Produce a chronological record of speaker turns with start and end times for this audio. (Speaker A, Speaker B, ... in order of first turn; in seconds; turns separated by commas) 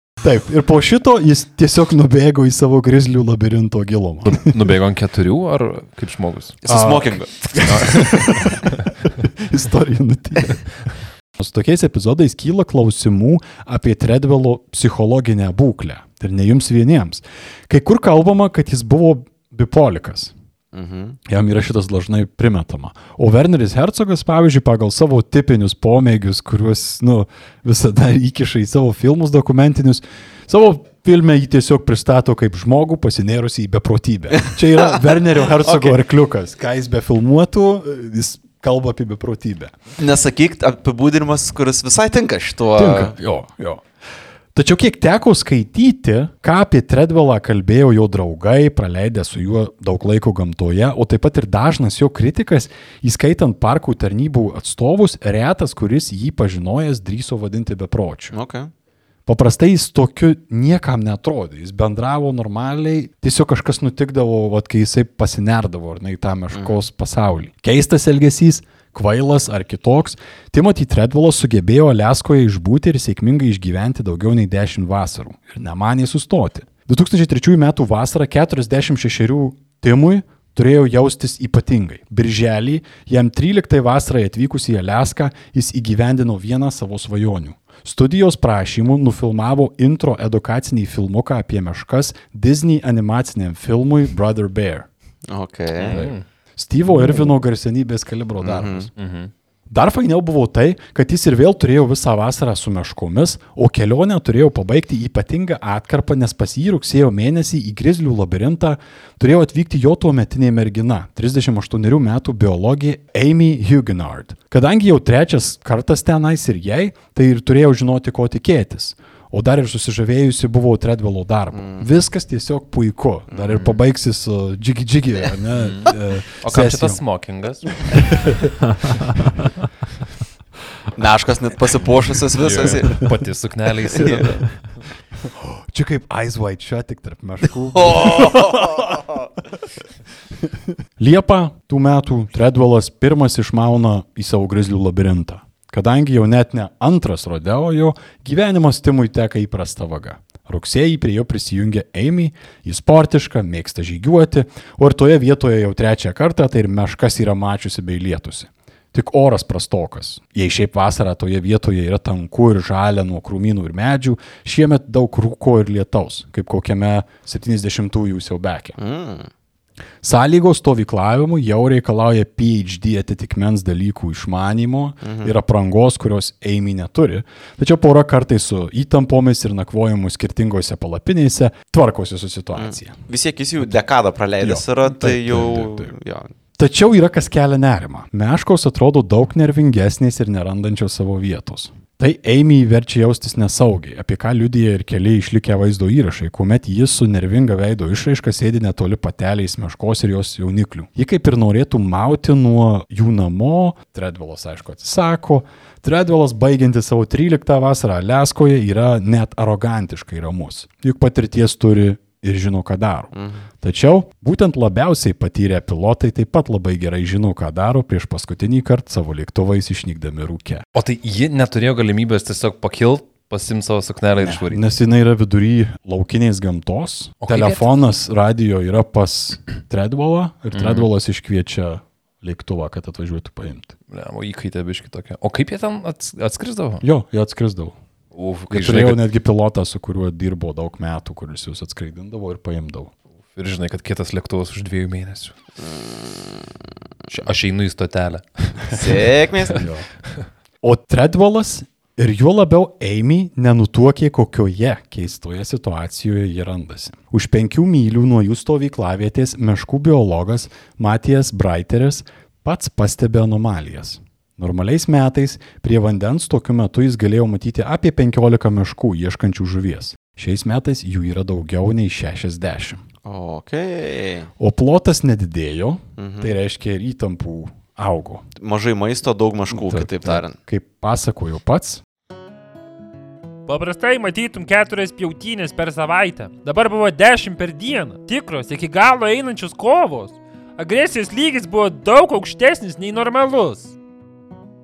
Speaker A: 0.2-4.5, Speaker B: 4.2-6.6, Speaker C: 6.6-8.4, Speaker A: 6.7-20.3, Speaker B: 7.6-8.6, Speaker C: 20.7-21.2, Speaker A: 21.2-39.7, Speaker C: 34.4-36.0, Speaker C: 40.0-43.1, Speaker A: 42.8-43.8, Speaker A: 44.5-58.3, Speaker C: 58.3-58.7, Speaker A: 59.3-94.9, Speaker C: 95.3-96.0, Speaker B: 95.8-96.2, Speaker A: 95.9-98.9, Speaker B: 96.9-97.2, Speaker C: 98.4-98.9, Speaker B: 99.0-99.3, Speaker A: 99.7-127.0, Speaker C: 121.5-121.9, Speaker C: 123.3-123.6, Speaker B: 125.5-128.3, Speaker A: 127.9-128.4, Speaker C: 130.9-133.1, Speaker B: 132.4-134.7, Speaker C: 133.9-134.3, Speaker A: 135.2-139.1, Speaker C: 137.7-139.2, Speaker A: 140.4-168.8, Speaker C: 168.8-169.3, Speaker A: 170.0-183.0, Speaker C: 175.0-175.3, Speaker C: 182.5-186.3, Speaker A: 184.4-185.9, Speaker A: 186.6-220.6, Speaker C: 213.1-213.4, Speaker B: 220.7-224.6, Speaker A: 224.2-233.7, Speaker B: 227.2-227.7, Speaker B: 230.5-230.9, Speaker B: 233.9-236.8, Speaker A: 236.8-237.8, Speaker B: 238.1-239.0, Speaker A: 238.5-242.9, Speaker B: 243.3-245.3, Speaker C: 245.6-246.4, Speaker B: 247.1-249.5, Speaker C: 248.7-249.7, Speaker A: 249.6-249.8, Speaker A: 250.6-272.8, Speaker C: 273.0-274.3, Speaker A: 274.4-278.2, Speaker C: 276.0-276.3, Speaker C: 278.4-280.3, Speaker A: 279.5-281.8, Speaker D: 283.5-293.7